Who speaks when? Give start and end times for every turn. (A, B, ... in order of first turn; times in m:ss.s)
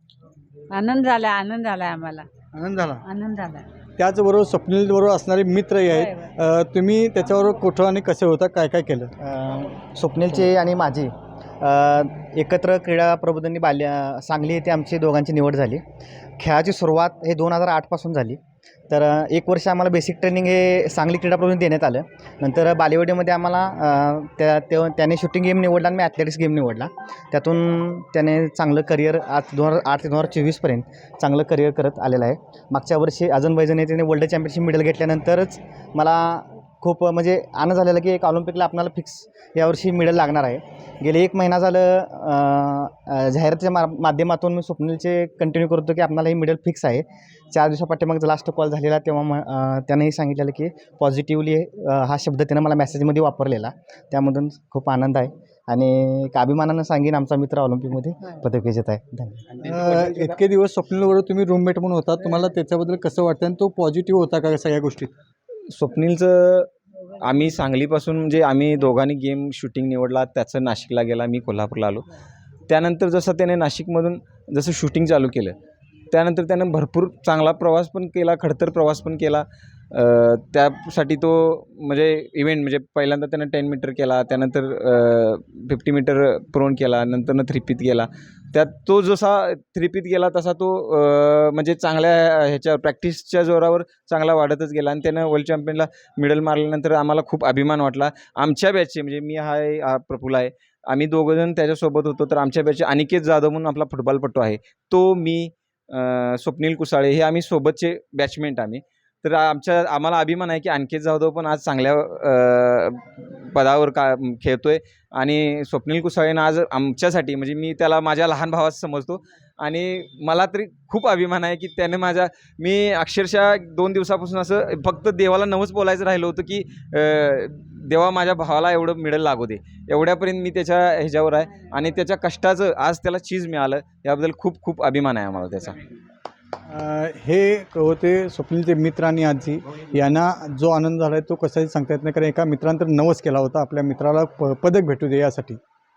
0:00.7-0:02.3 A
0:02.5-0:03.0 B
0:03.0-0:03.7 A
0:04.0-0:09.1 B
0:09.2-0:15.8 C
0:16.4-0:18.4 C
0:18.9-0:59.5 C
0:59.6-1:05.1 B
1:05.7-1:12.0 D
1:12.7-1:15.6 D
1:16.1-2:15.8 D
2:16.7-2:25.6 B